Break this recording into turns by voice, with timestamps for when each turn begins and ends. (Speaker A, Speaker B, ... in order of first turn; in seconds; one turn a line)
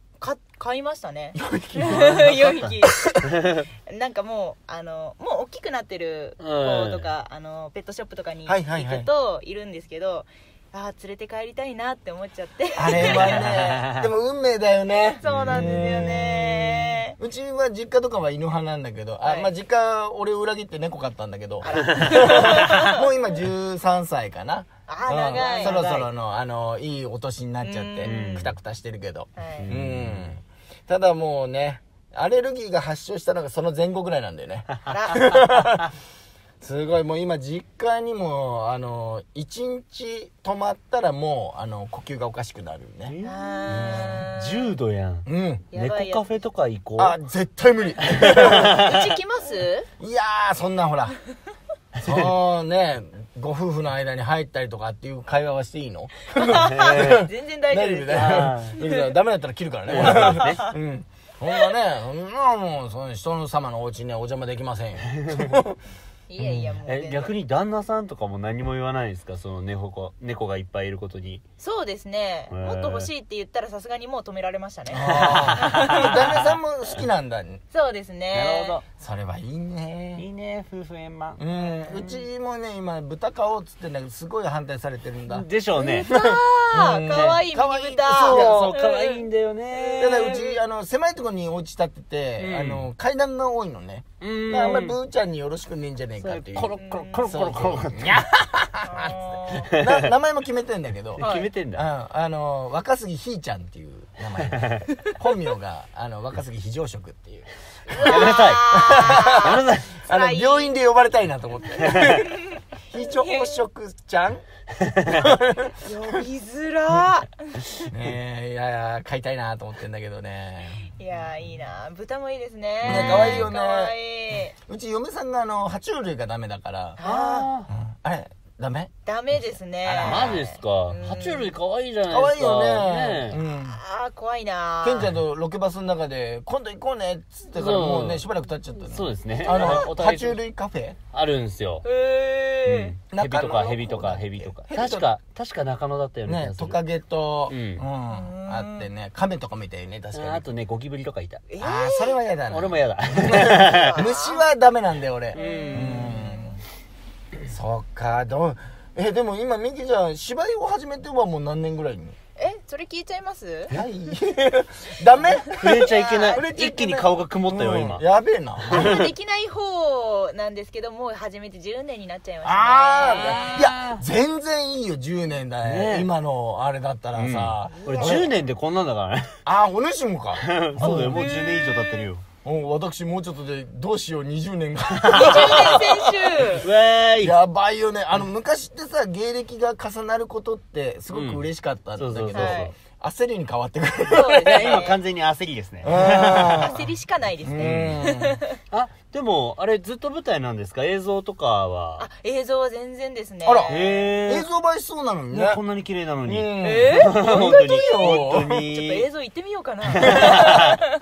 Speaker A: 0.2-3.0
Speaker B: 1.4-3.3
Speaker C: 2.0-2.7
Speaker C: 3.4-3.6
Speaker A: 3.9-13.5
Speaker C: 6.4-7.1
Speaker B: 8.5-9.1
Speaker B: 12.8-35.9
Speaker C: 12.9-14.1
Speaker A: 15.2-17.2
Speaker C: 15.2-15.8
Speaker A: 19.2-19.5
Speaker A: 21.6-23.0
Speaker C: 21.8-22.9
Speaker A: 24.9-26.1
Speaker C: 25.5-25.8
Speaker A: 27.6-28.5
Speaker C: 28.0-28.5
Speaker A: 29.4-29.7
Speaker C: 29.6-30.3
Speaker A: 34.9-35.4
Speaker B: 36.6-43.1
Speaker C: 43.1-47.1
Speaker A: 43.2-44.8
Speaker B: 43.7-44.3
Speaker B: 45.2-45.7
Speaker A: 45.7-46.4
Speaker B: 47.0-48.9
Speaker C: 48.2-49.0
Speaker A: 48.3-49.9
Speaker B: 50.0-51.2
Speaker C: 52.0-52.3
Speaker B: 52.0-65.8
Speaker A: 56.4-59.0
Speaker C: 56.6-57.2
Speaker C: 58.1-58.8
Speaker C: 59.9-60.6
Speaker A: 60.0-60.7
Speaker C: 65.2-65.5
Speaker A: 66.3-67.3
Speaker B: 66.4-66.7
Speaker C: 66.8-71.4
Speaker A: 71.6-76.3
Speaker C: 72.5-73.1
Speaker B: 74.9-77.6
Speaker C: 75.0-76.4
Speaker A: 77.7-78.8
Speaker C: 78.3-78.8
Speaker B: 79.0-80.2
Speaker C: 80.2-81.4
Speaker B: 81.4-85.5
Speaker C: 81.9-82.2
Speaker C: 85.3-86.1
Speaker A: 85.8-89.2
Speaker B: 86.1-88.8
Speaker C: 87.1-87.3
Speaker C: 88.1-90.5
Speaker A: 89.8-90.5
Speaker B: 90.0-101.2
Speaker C: 92.4-92.9
Speaker C: 94.2-94.9
Speaker C: 96.2-98.2
Speaker A: 96.8-97.4
Speaker A: 98.8-99.7
Speaker C: 99.6-100.1
Speaker C: 101.2-101.9
Speaker A: 101.2-101.5
Speaker B: 101.7-114.4
Speaker C: 104.4-104.8
Speaker A: 107.9-110.7
Speaker C: 108.0-109.9
Speaker A: 112.0-112.4
Speaker A: 113.0-113.6
Speaker C: 114.8-115.2
Speaker B: 115.0-115.8
Speaker A: 115.8-117.6
Speaker B: 117.9-120.9
Speaker A: 120.8-124.5
Speaker B: 122.8-123.9
Speaker C: 122.8-123.5
Speaker B: 124.6-127.0
Speaker A: 127.0-127.5
Speaker C: 127.0-127.7
Speaker B: 127.7-128.9
Speaker A: 129.1-131.5
Speaker B: 129.8-130.4
Speaker C: 130.0-133.4
Speaker B: 132.1-133.8
Speaker A: 133.4-135.1
Speaker B: 134.8-141.0
Speaker C: 137.6-138.2
Speaker C: 138.8-140.4
Speaker C: 141.1-141.8
Speaker A: 141.8-142.9
Speaker C: 142.7-146.8
Speaker B: 143.1-145.1
Speaker B: 146.3-150.4
Speaker C: 147.5-147.8
Speaker A: 148.1-148.9
Speaker C: 150.1-151.4
Speaker A: 151.5-152.1
Speaker B: 151.6-156.6
Speaker C: 152.5-154.0
Speaker A: 153.9-154.4
Speaker A: 155.3-156.6
Speaker C: 155.4-156.1
Speaker B: 157.5-162.2
Speaker A: 162.4-163.8
Speaker B: 163.7-169.0
Speaker C: 165.6-168.0
Speaker A: 165.7-166.4
Speaker A: 168.7-173.6
Speaker C: 168.7-169.1
Speaker B: 172.4-178.3
Speaker C: 173.0-174.0
Speaker C: 175.6-176.1
Speaker C: 177.2-179.4
Speaker A: 177.8-178.2
Speaker B: 179.4-181.2
Speaker C: 180.4-182.2
Speaker A: 180.9-182.1
Speaker B: 182.4-186.5
Speaker C: 184.9-185.8
Speaker A: 185.1-186.7
Speaker C: 186.5-187.4
Speaker B: 187.2-194.8
Speaker C: 191.1-191.4
Speaker C: 191.9-192.7
Speaker A: 192.3-192.7
Speaker A: 194.1-195.0
Speaker C: 194.3-196.7
Speaker B: 195.8-196.8
Speaker A: 195.9-198.5
Speaker B: 197.4-198.4
Speaker C: 197.6-198.0
Speaker C: 198.7-202.1
Speaker A: 202.0-204.1
Speaker B: 203.4-205.6
Speaker C: 203.7-204.4
Speaker C: 205.3-209.1
Speaker B: 206.2-208.7
Speaker A: 206.6-210.8
Speaker C: 209.9-210.8
Speaker B: 210.0-210.8